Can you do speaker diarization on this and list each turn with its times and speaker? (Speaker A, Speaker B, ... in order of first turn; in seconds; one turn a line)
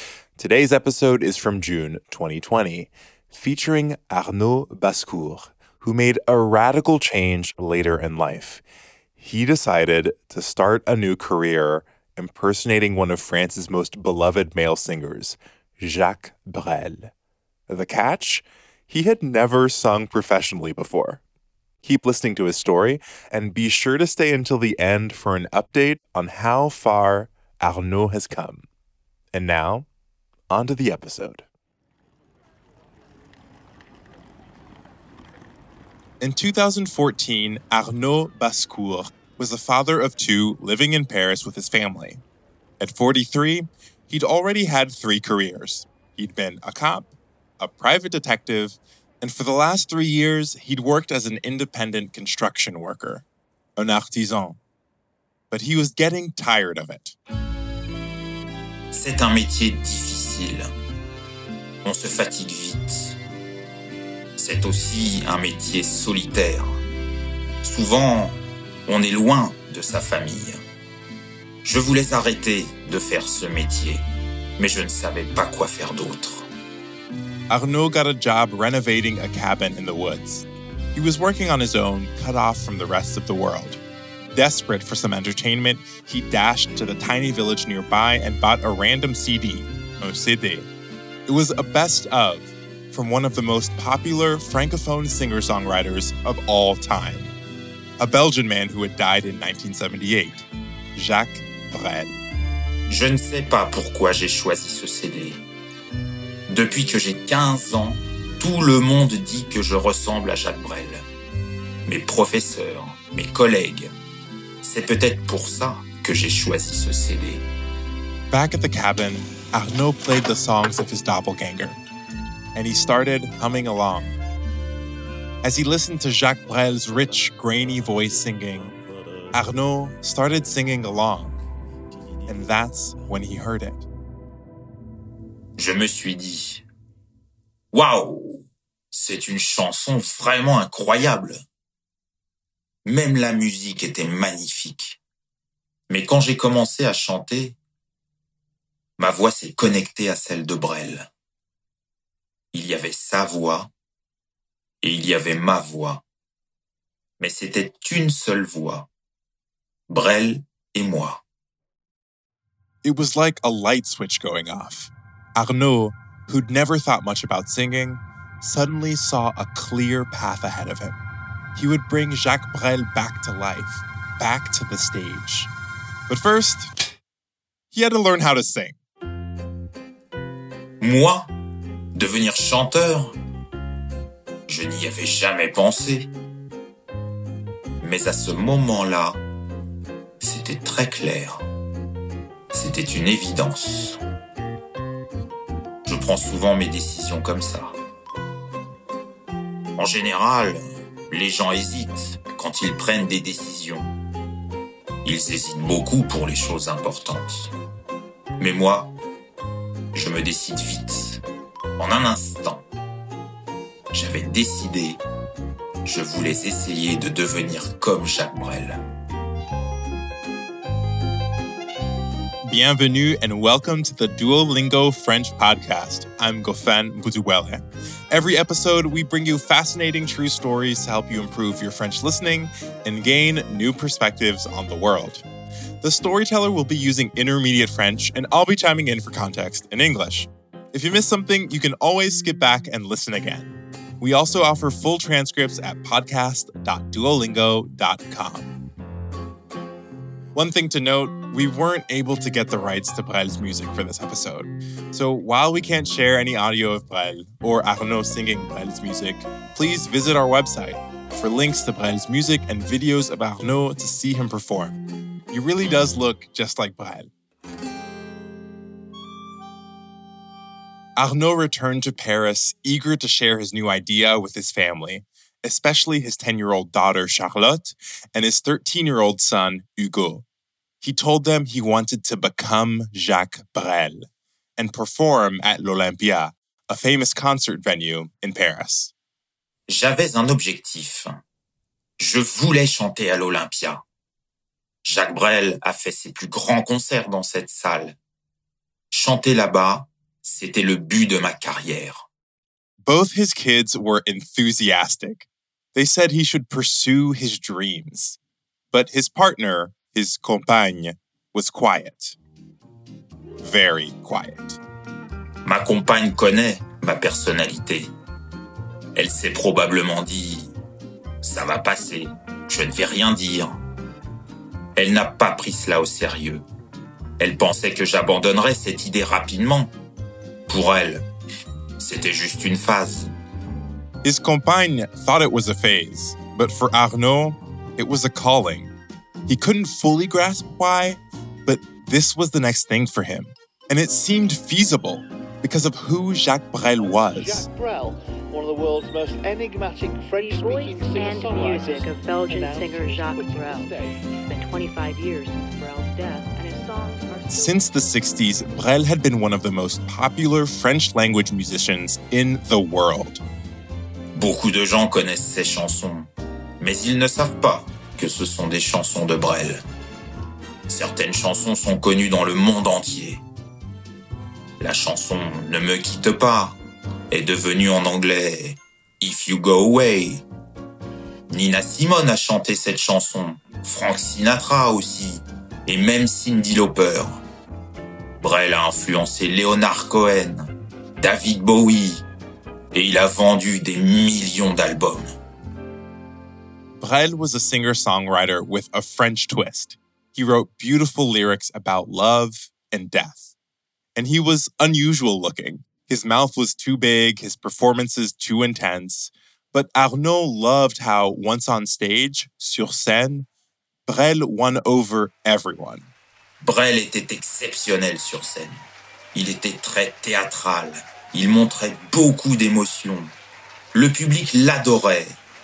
Speaker A: 0.4-8.6
Speaker A: 9.2-17.1
Speaker A: 17.7-21.2
Speaker A: 21.8-28.7
Speaker A: 29.3-29.9
Speaker A: 30.5-31.4
Speaker A: 36.2-42.2
Speaker A: 42.8-53.2
Speaker A: 53.8-54.6
Speaker A: 55.5-57.2
Speaker B: 58.9-60.7
Speaker B: 61.8-63.2
Speaker B: 64.4-66.8
Speaker B: 67.6-70.6
Speaker B: 71.6-74.0
Speaker B: 74.6-76.5
Speaker A: 77.5-83.8
Speaker A: 84.3-90.7
Speaker A: 91.3-97.3
Speaker A: 98.0-102.2
Speaker B: 102.9-105.4
Speaker B: 106.5-111.0
Speaker B: 111.8-113.9
Speaker B: 114.6-117.4
Speaker A: 118.3-121.8
Speaker A: 122.5-124.2
Speaker A: 125.4-128.8
Speaker A: 129.3-131.4
Speaker A: 132.3-133.9
Speaker B: 135.6-136.6
Speaker B: 137.7-141.4
Speaker B: 142.8-145.0
Speaker B: 145.9-147.6
Speaker B: 149.0-151.1
Speaker B: 152.5-153.7
Speaker B: 154.8-156.0
Speaker B: 157.2-158.9
Speaker B: 159.9-161.2
Speaker A: 162.8-171.0
Speaker A: 171.5-175.5
Speaker A: 176.1-176.7
Speaker A: 177.7-178.8
Speaker B: 180.8-181.3
Speaker B: 181.9-183.2
Speaker B: 184.5-186.1
Speaker B: 187.8-189.2
Speaker B: 190.2-191.4
Speaker B: 192.5-194.0
Speaker B: 195.8-197.8
Speaker B: 199.8-203.9
Speaker B: 205.0-207.5
Speaker B: 208.4-208.9
Speaker B: 209.9-211.2
Speaker B: 211.8-212.6
Speaker B: 213.9-215.0
Speaker B: 215.8-218.8
Speaker A: 222.5-235.2
Speaker A: 235.8-248.5
Speaker A: 250.3-264.8
Speaker A: 265.3-267.1
Speaker A: 271.0-280.2
Speaker A: 280.8-288.9
Speaker B: 289.7-291.2
Speaker B: 292.0-293.8
Speaker B: 294.8-298.0
Speaker B: 298.9-302.1
Speaker A: 302.9-308.2
Speaker A: 308.7-312.2
Speaker A: 313.4-314.6
Speaker B: 315.4-317.9
Speaker B: 318.9-320.5
Speaker B: 321.2-323.6
Speaker B: 324.8-326.4
Speaker B: 327.2-329.7
Speaker B: 330.5-331.1
Speaker B: 331.8-333.1
Speaker A: 334.0-338.7
Speaker A: 339.3-347.4
Speaker C: 346.8-354.0
Speaker D: 350.1-353.7
Speaker D: 354.2-357.7
Speaker A: 357.3-363.2
Speaker B: 364.1-369.6
Speaker B: 370.7-373.2
Speaker B: 374.6-376.6
Speaker B: 377.1-380.2
Speaker B: 381.3-387.2
Speaker B: 388.2-392.1
Speaker B: 392.7-395.1
Speaker A: 396.8-403.3
Speaker A: 403.9-413.3
Speaker A: 413.9-415.9
Speaker B: 416.4-423.1
Speaker B: 423.7-425.2